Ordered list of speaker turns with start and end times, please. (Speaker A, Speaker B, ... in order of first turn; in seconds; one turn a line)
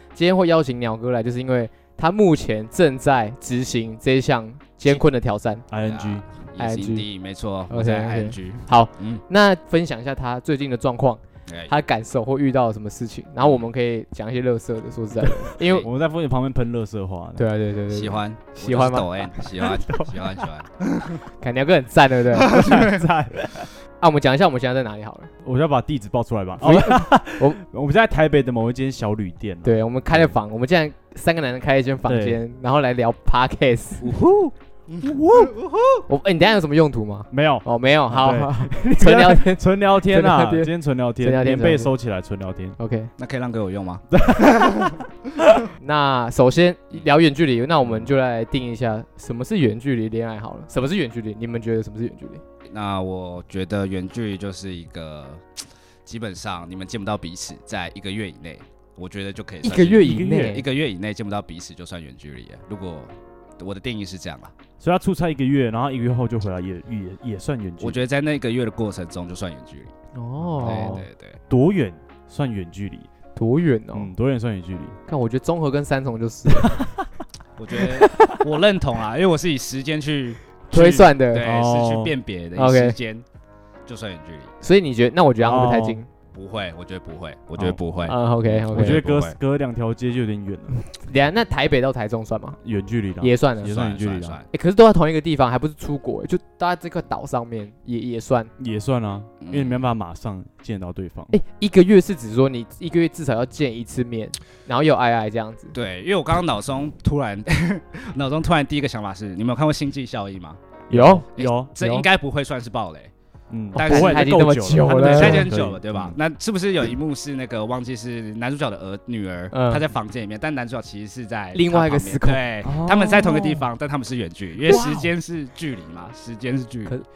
Speaker A: 0.1-5.6
Speaker B: 5.7-6.2
Speaker C: 5.8-9.2
Speaker A: 6.5-7.0
Speaker A: 7.7-15.9
Speaker C: 11.5-11.7
Speaker B: 15.2-17.4
Speaker C: 15.6-15.9
Speaker A: 17.4-19.4
Speaker C: 17.9-21.2
Speaker B: 19.6-20.5
Speaker A: 21.4-22.6
Speaker B: 22.4-23.7
Speaker C: 22.4-23.0
Speaker A: 24.0-25.3
Speaker B: 25.4-30.3
Speaker A: 26.6-27.6
Speaker A: 29.6-34.1
Speaker B: 32.1-32.4
Speaker C: 34.0-36.0
Speaker B: 35.0-35.6
Speaker A: 36.1-41.9
Speaker B: 37.3-42.8
Speaker A: 42.8-43.1
Speaker C: 43.2-45.0
Speaker B: 44.1-45.6
Speaker A: 45.8-52.4
Speaker C: 52.7-64.5
Speaker A: 59.6-60.6
Speaker B: 64.8-68.0
Speaker C: 67.8-69.9
Speaker A: 70.1-71.0
Speaker B: 70.4-73.1
Speaker C: 70.6-71.4
Speaker A: 73.3-74.1
Speaker B: 73.9-75.0
Speaker A: 75.1-76.9
Speaker B: 76.5-76.9
Speaker C: 77.6-83.2
Speaker A: 77.7-78.4
Speaker A: 80.7-81.4
Speaker B: 81.3-82.1
Speaker A: 82.5-83.0
Speaker C: 83.8-84.5
Speaker A: 84.6-86.1
Speaker B: 85.4-86.0
Speaker C: 86.3-89.4
Speaker A: 88.0-89.0
Speaker B: 88.7-90.8
Speaker A: 91.0-92.6
Speaker B: 92.6-94.4
Speaker A: 93.2-93.8
Speaker C: 93.6-94.5
Speaker A: 94.5-98.5
Speaker B: 98.6-101.3
Speaker C: 99.4-99.8
Speaker A: 101.3-105.7
Speaker C: 105.7-110.6
Speaker B: 110.9-111.7
Speaker A: 110.9-112.1
Speaker C: 111.3-113.1
Speaker B: 113.5-116.2
Speaker A: 113.7-115.5
Speaker C: 113.7-127.0
Speaker A: 119.5-119.8
Speaker A: 121.5-122.4
Speaker B: 122.6-123.7
Speaker B: 124.6-125.1